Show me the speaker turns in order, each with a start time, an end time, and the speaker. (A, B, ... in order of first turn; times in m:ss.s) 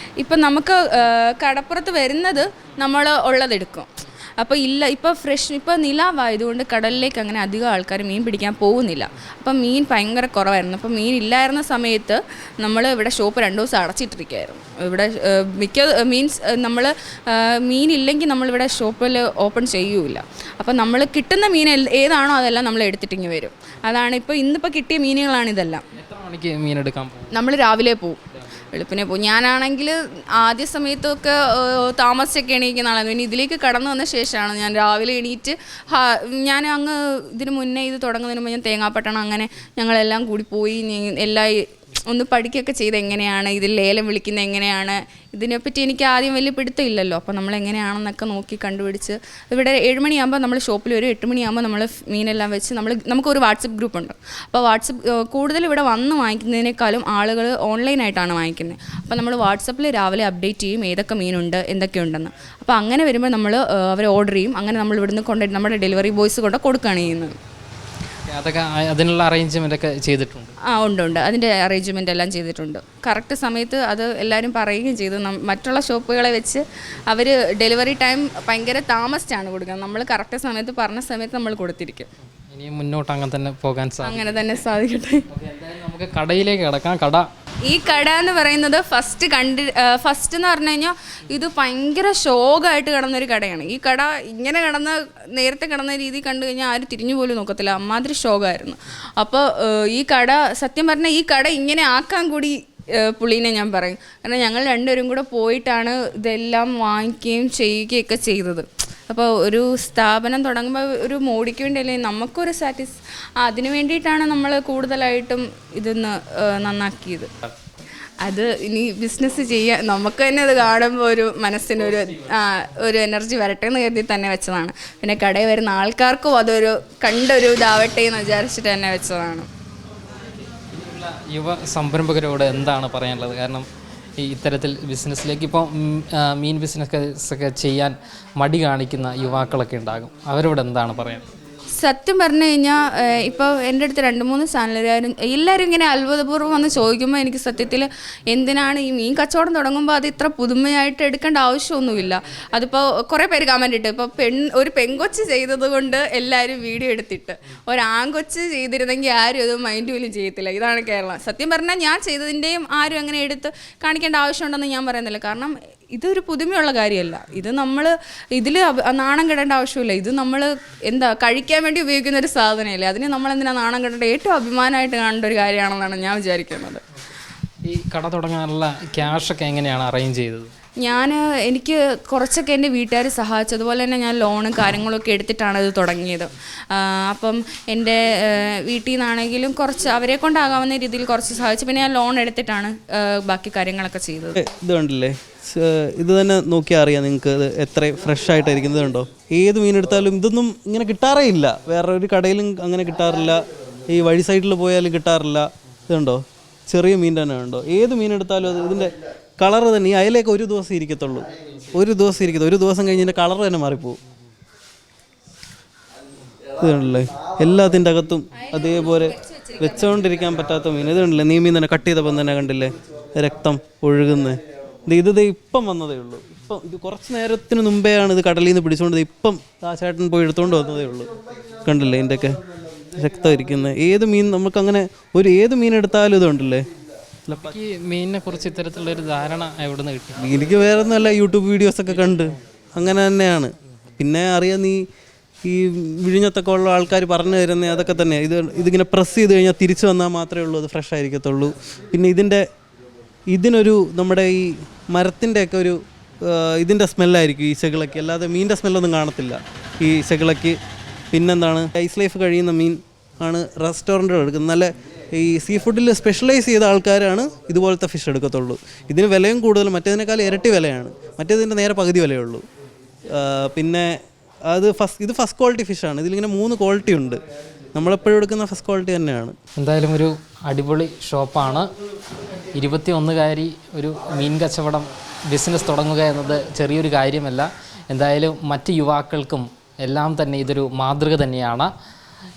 0:00.2-0:25.9 A
0:25.9-0:27.4 B
0:27.3-0:28.2 A
0:28.4-0:28.7 B
0:28.7-1:07.4 A
1:08.3-1:10.5 B
1:10.7-1:22.1 A
1:22.5-1:24.4 B
1:24.0-1:25.3 A
1:25.3-1:27.3 B
1:27.6-1:57.3 A
1:58.2-2:09.5 A
2:10.4-2:13.7 B
2:14.2-2:21.2 B
2:21.8-2:56.8 A
2:57.6-3:00.5 B
3:00.8-3:14.4 A
3:14.4-3:34.0 C
3:36.6-3:51.1 C
3:38.4-3:40.3 A
3:51.6-3:56.6 C
3:57.3-3:57.6 C
3:57.3-4:00.3 B
4:00.2-4:04.8 C
4:05.4-4:12.5 C
4:13.3-4:20.6 C
4:21.1-4:32.5 C
4:33.1-4:37.2 C
4:37.7-4:39.4 C
4:39.6-4:41.7 B
4:42.5-4:51.7 B